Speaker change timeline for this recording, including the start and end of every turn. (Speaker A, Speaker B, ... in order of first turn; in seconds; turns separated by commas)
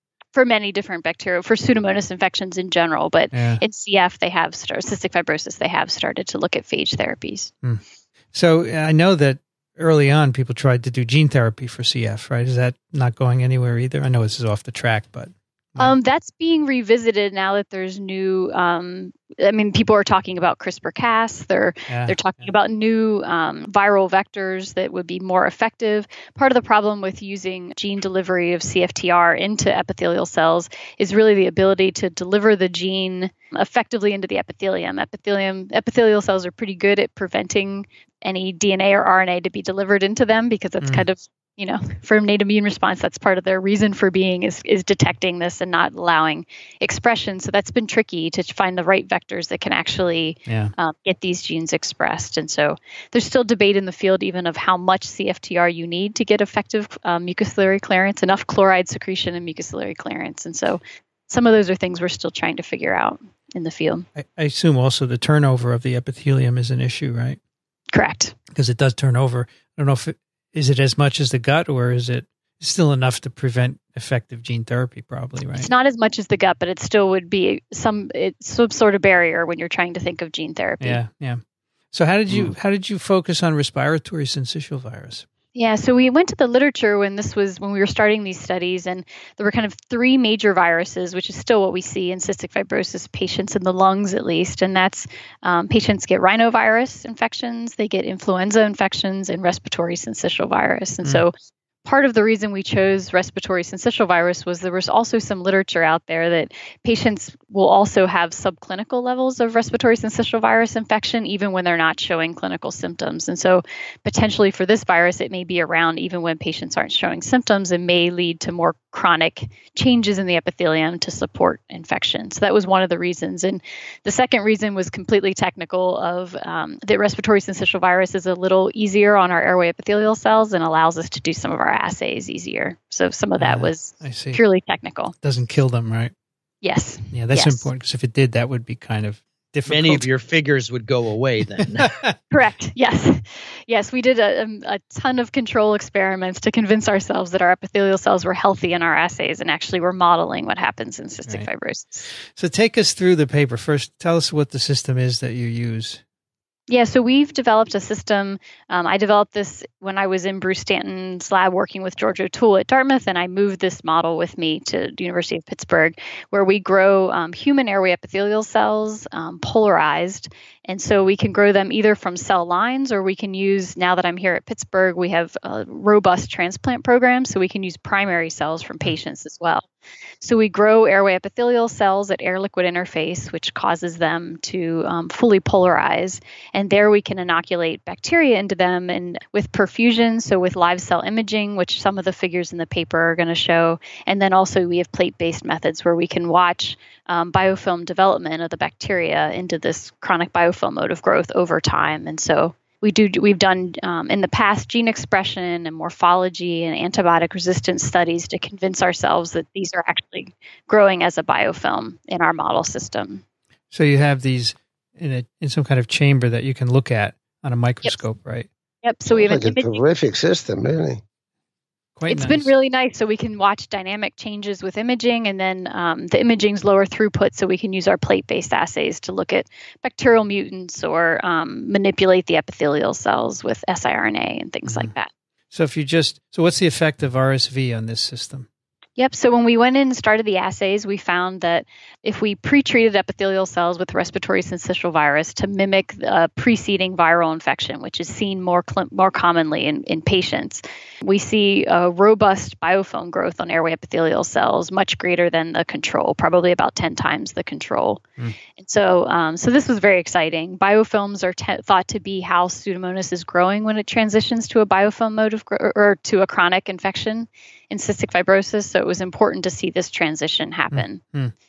Speaker A: 0.3-7.5, Speaker B: 3.3-3.6, Speaker B: 7.6-15.9, Speaker A: 15.8-64.1, Speaker B: 21.9-22.2, Speaker B: 40.8-41.1, Speaker B: 50.5-50.7, Speaker B: 64.2-67.4, Speaker A: 67.9-68.3, Speaker B: 68.5-75.7, Speaker A: 75.6-81.0, Speaker B: 80.8-81.4, Speaker B: 81.9-85.2, Speaker C: 82.3-82.5, Speaker A: 85.5-101.3, Speaker A: 101.8-135.1, Speaker B: 133.4-134.4, Speaker B: 135.2-136.1, Speaker A: 136.6-137.7, Speaker B: 137.1-140.1, Speaker D: 139.7-141.9, Speaker B: 141.9-142.2, Speaker A: 142.3-152.1, Speaker B: 152.1-156.0, Speaker A: 156.7-179.7, Speaker A: 180.2-213.2, Speaker B: 213.7-218.5, Speaker A: 218.8-219.8, Speaker C: 219.1-221.0, Speaker B: 222.0-222.5, Speaker A: 222.1-235.1, Speaker B: 234.7-234.9, Speaker B: 235.5-238.5, Speaker A: 239.0-258.0, Speaker A: 258.6-271.0, Speaker B: 270.7-271.3